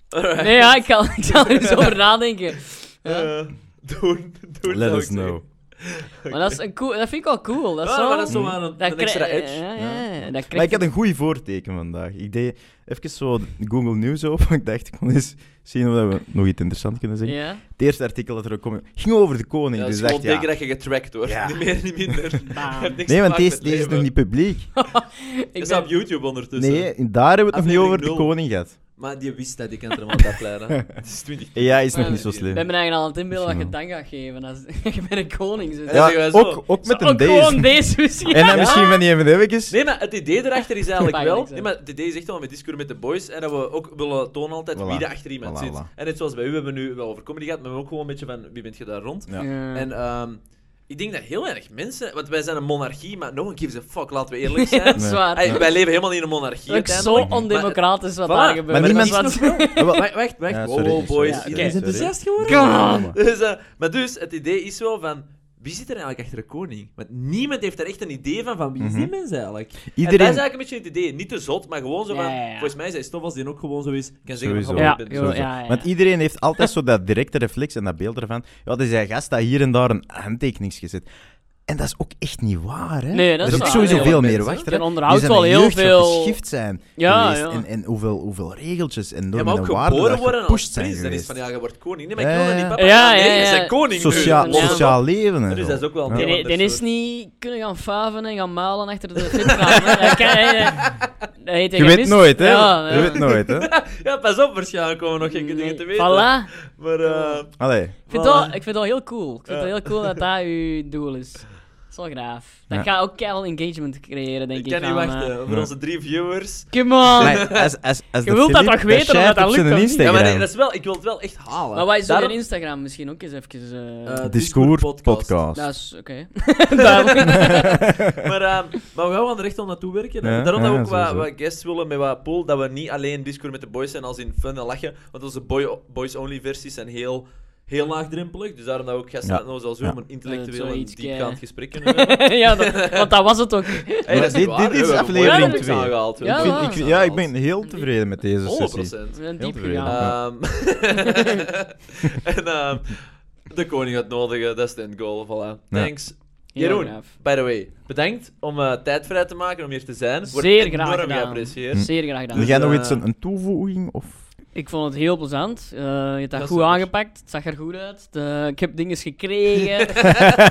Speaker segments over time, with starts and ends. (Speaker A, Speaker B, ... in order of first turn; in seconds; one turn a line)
Speaker A: 0.1-2.0
Speaker B: 0.4-3.3
Speaker A: 3.0-6.6
Speaker C: 4.7-5.4
Speaker B: 6.3-10.8
Speaker A: 7.8-9.6
Speaker C: 8.3-8.6
Speaker C: 9.8-20.5
Speaker B: 17.2-17.6
Speaker A: 19.8-24.1
Speaker C: 21.2-21.6
Speaker B: 22.4-23.0
Speaker C: 23.1-24.7
Speaker B: 24.7-25.9
Speaker A: 25.6-27.0
Speaker C: 26.6-28.7
Speaker A: 27.5-32.5
Speaker C: 31.5-32.7
Speaker B: 31.9-39.0
Speaker C: 33.3-33.7
Speaker A: 35.9-36.6
Speaker C: 35.9-39.7
Speaker A: 38.5-39.0
Speaker A: 39.7-75.5
Speaker B: 41.0-41.7
Speaker C: 44.7-45.9
Speaker B: 49.4-49.9
Speaker B: 54.5-55.6
Speaker C: 55.0-55.6
Speaker B: 56.7-60.0
Speaker C: 57.1-57.5
Speaker C: 58.7-63.2
Speaker B: 61.2-63.1
Speaker C: 68.8-69.1
Speaker C: 69.9-70.4
Speaker B: 72.1-72.7
Speaker C: 74.3-81.0
Speaker B: 74.8-75.9
Speaker C: 81.7-91.4
Speaker B: 83.1-86.4
Speaker A: 83.4-84.7
Speaker B: 87.0-87.6
Speaker A: 89.3-96.8
Speaker C: 92.2-92.8
Speaker B: 92.8-94.9
Speaker C: 93.9-96.3
Speaker B: 96.1-103.2
Speaker A: 99.4-101.1
Speaker C: 101.7-103.7
Speaker A: 102.9-107.6
Speaker B: 105.2-107.4
Speaker C: 107.6-107.9
Speaker B: 108.0-115.3
Speaker A: 108.1-108.6
Speaker A: 109.5-110.2
Speaker A: 114.5-117.7
Speaker B: 116.7-117.6
Speaker C: 117.2-120.5
Speaker B: 118.2-120.2
Speaker A: 120.0-122.4
Speaker B: 121.7-124.2
Speaker A: 124.0-125.3
Speaker C: 124.2-125.7
Speaker B: 125.5-127.9
Speaker A: 126.8-143.1
Speaker C: 127.6-128.1
Speaker C: 130.2-131.3
Speaker C: 139.2-140.0
Speaker B: 140.2-146.9
Speaker A: 143.9-147.3
Speaker C: 144.1-150.2
Speaker A: 148.4-163.0
Speaker B: 149.1-150.1
Speaker B: 151.0-151.4
Speaker B: 156.5-157.1
Speaker B: 160.3-162.5
Speaker C: 161.7-164.2
Speaker B: 164.5-170.2
Speaker A: 166.3-166.9